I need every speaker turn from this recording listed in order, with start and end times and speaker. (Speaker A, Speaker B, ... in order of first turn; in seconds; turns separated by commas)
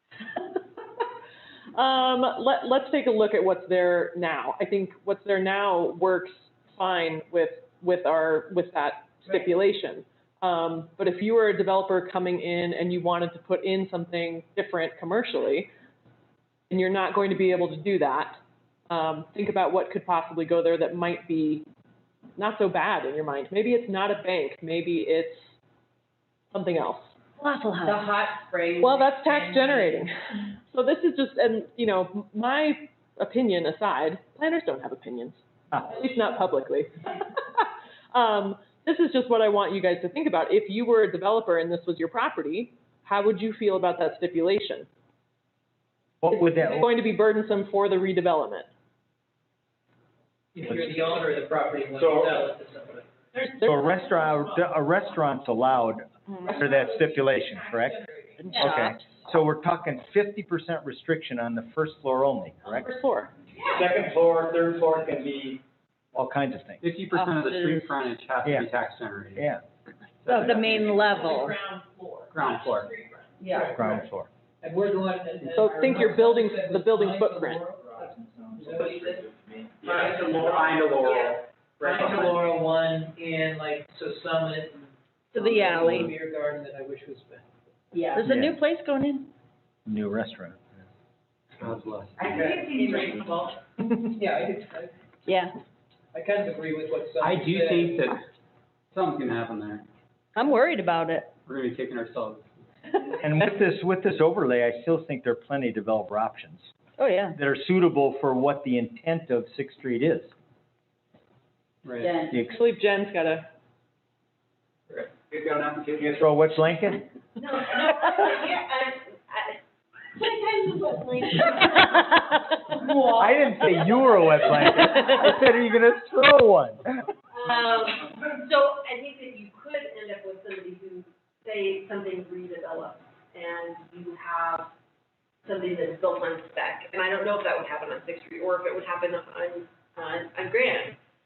Speaker A: 1.7-15.7, Speaker A: 16.7-21.7, Speaker A: 22.4-25.5, Speaker A: 26.5-27.1, Speaker B: 27.4-28.0, Speaker C: 27.8-30.1, Speaker A: 28.8-30.1, Speaker A: 30.7-44.9, Speaker D: 46.2-46.9, Speaker A: 46.5-48.7, Speaker E: 50.5-53.1, Speaker D: 50.7-51.0, Speaker D: 52.0-52.4, Speaker A: 53.3-54.7, Speaker D: 53.6-58.0, Speaker A: 56.4-58.6, Speaker B: 58.4-59.0, Speaker D: 58.5-62.9, Speaker A: 62.7-63.3, Speaker D: 63.7-65.6, Speaker D: 66.1-66.8, Speaker F: 66.8-69.5, Speaker B: 67.1-67.9, Speaker D: 69.3-69.6, Speaker F: 70.2-71.1, Speaker B: 70.3-71.5, Speaker A: 70.3-73.5, Speaker F: 72.3-72.9, Speaker E: 73.4-74.0, Speaker D: 73.7-74.3, Speaker E: 74.6-79.3, Speaker A: 75.5-77.6, Speaker D: 77.7-80.4, Speaker E: 79.8-81.3, Speaker F: 79.8-82.4, Speaker E: 81.8-87.4, Speaker B: 85.3-86.0, Speaker B: 88.1-89.3, Speaker D: 88.2-88.6, Speaker D: 89.9-90.8, Speaker F: 91.6-93.2, Speaker E: 92.3-93.6, Speaker C: 92.7-93.0, Speaker E: 94.2-94.9, Speaker B: 95.3-95.5, Speaker E: 96.1-98.2, Speaker F: 97.2-98.3, Speaker F: 98.9-99.9, Speaker B: 100.4-101.3, Speaker F: 101.5-102.6, Speaker D: 103.1-106.7, Speaker B: 107.0-107.4, Speaker D: 107.3-110.3, Speaker F: 111.8-112.3, Speaker C: 112.0-112.4, Speaker D: 112.3-112.6, Speaker A: 112.5-113.5, Speaker F: 114.9-116.2, Speaker D: 116.0-117.0, Speaker G: 117.4-119.6, Speaker G: 120.1-122.2, Speaker G: 122.7-124.8, Speaker D: 123.1-127.0, Speaker G: 127.3-134.7, Speaker G: 135.4-141.0